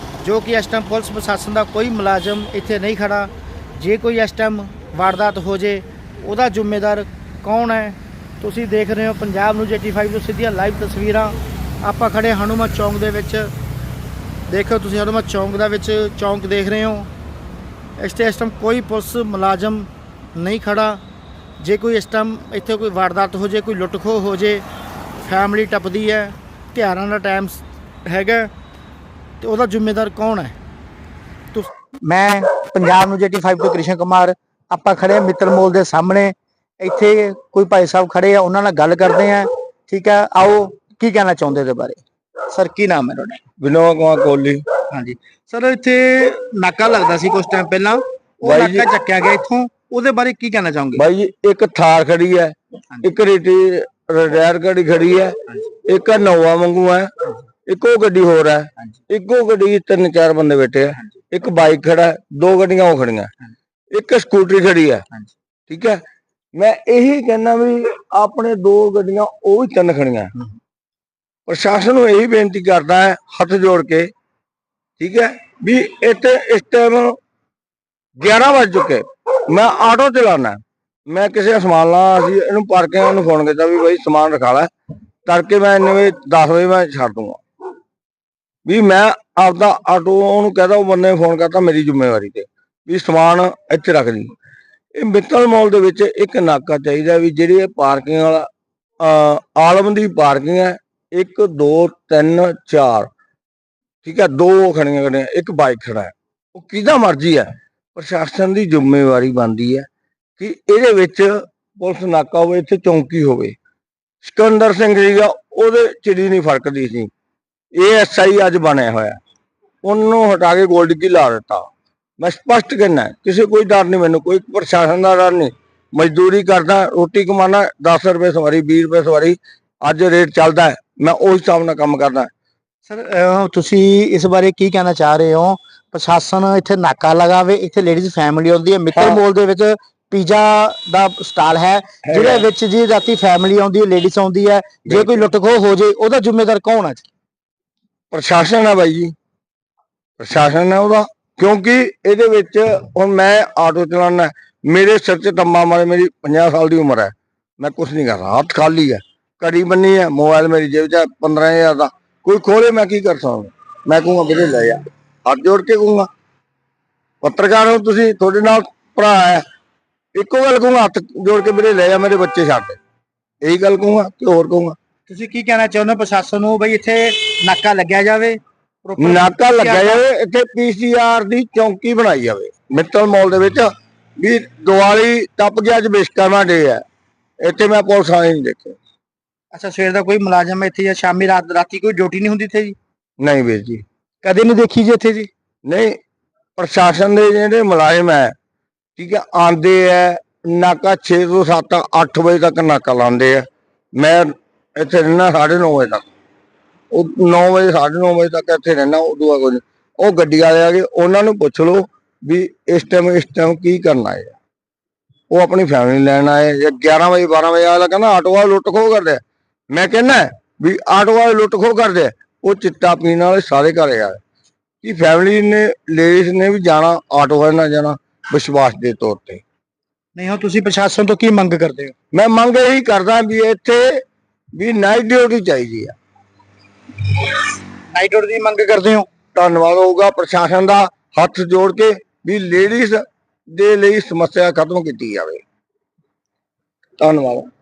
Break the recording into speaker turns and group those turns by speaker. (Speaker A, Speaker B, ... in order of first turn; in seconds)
Speaker A: 0.2-13.5, 14.5-17.1, 18.0-21.0, 21.6-24.6, 25.2-28.5, 29.4-30.6, 31.5-43.4, 44.9-51.0, 132.9-147.1, 175.1-180.0, 189.5-192.8, 194.2-195.3, 230.2-231.9, 237.9-239.1
Speaker B: 43.6-44.6, 48.4-48.9, 51.0-57.1, 57.7-63.3, 63.9-65.0, 65.7-66.0, 66.6-70.3, 71.5-74.1, 75.0-77.2, 78.2-84.7, 85.3-87.4, 88.7-94.3, 95.0-98.5, 99.0-103.1, 104.0-109.9, 110.4-113.6, 114.2-117.1, 117.8-119.2, 119.8-132.3, 138.9-139.2, 142.1-142.5, 144.8-145.2, 148.1-149.1, 150.2-166.1, 167.2-169.4, 170.2-172.8, 173.4-174.8, 179.0-186.8, 187.4-188.8, 193.2-193.8, 195.7-196.0, 196.6-198.3, 199.0-206.1, 206.9-214.4, 215.3-224.2, 224.8-229.4, 232.1-234.0, 234.6-235.9, 239.3-245.4, 247.0-247.5